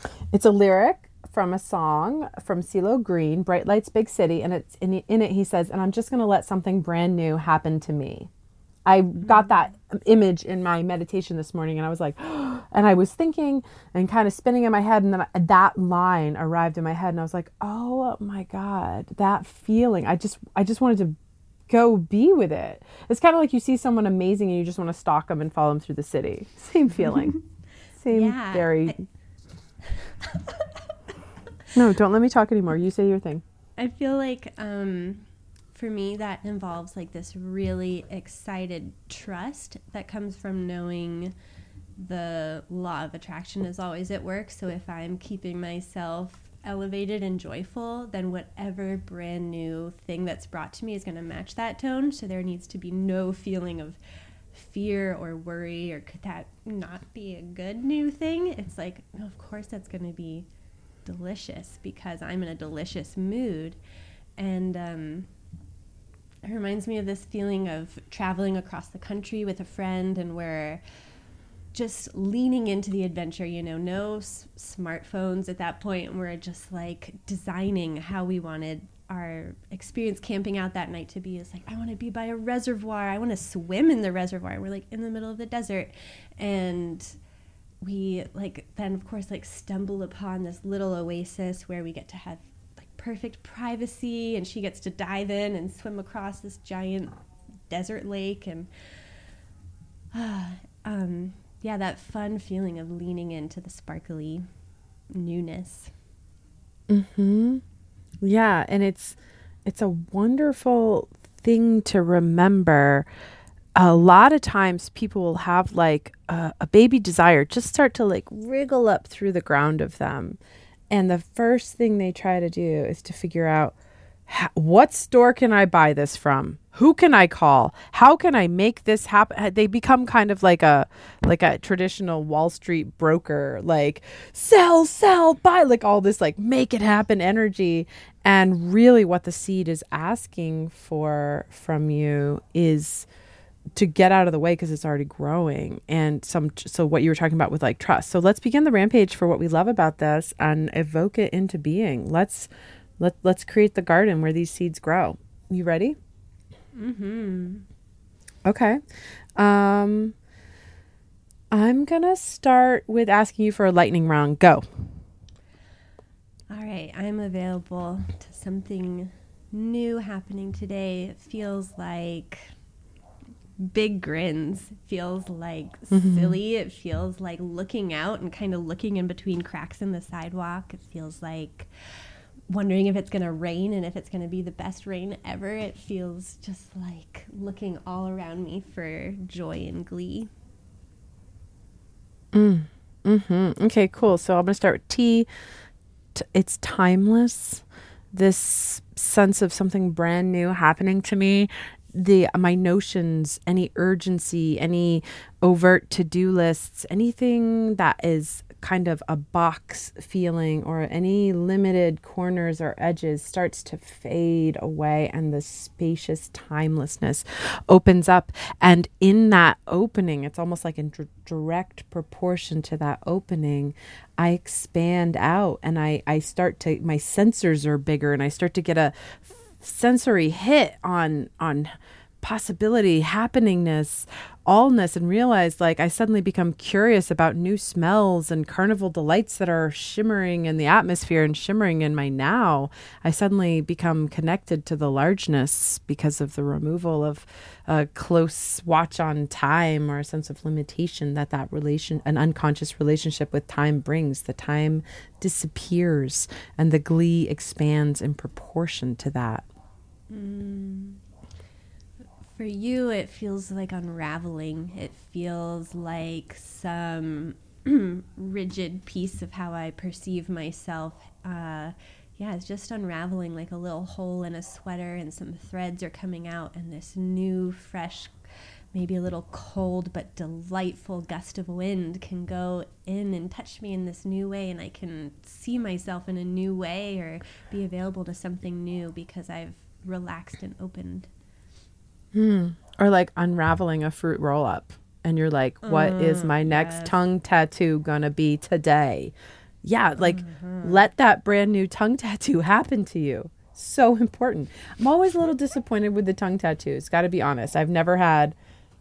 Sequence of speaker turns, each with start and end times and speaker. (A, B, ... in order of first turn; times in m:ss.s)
0:00.3-0:08.3 A
0:08.8-0:21.1 A
0:21.7-0:27.3 A
0:27.0-0:27.4 B
0:28.0-0:29.0 A
0:28.1-0:29.0 B
0:29.8-0:30.8 B
0:31.7-0:33.4 A
0:33.8-0:41.3 B
0:42.0-0:54.0 B
0:54.5-1:00.5 B
1:01.0-1:03.8 B
1:04.4-1:05.3 B
1:06.4-1:10.8 B
1:11.7-1:27.2 B
1:27.8-1:38.7 B
1:40.1-1:44.5 B
1:45.1-1:45.9 B
1:46.9-1:47.6 A
1:48.2-1:53.1 A
1:53.8-2:00.4 A
2:00.9-2:03.8 A
2:04.3-2:23.1 A
2:23.8-2:36.0 A
2:36.7-2:37.6 B
2:38.4-2:38.8 A
2:39.4-2:40.1 A
2:41.5-2:44.6 A
2:46.5-2:52.5 B
2:53.6-3:10.3 B
2:55.9-2:56.4 A
3:12.3-3:15.3 A
3:16.1-4:19.4 A
4:20.1-4:21.0 B
4:22.3-4:38.1 B
4:38.7-4:51.1 B
4:52.1-5:08.4 A
4:55.6-4:57.0 B
5:00.0-5:00.9 B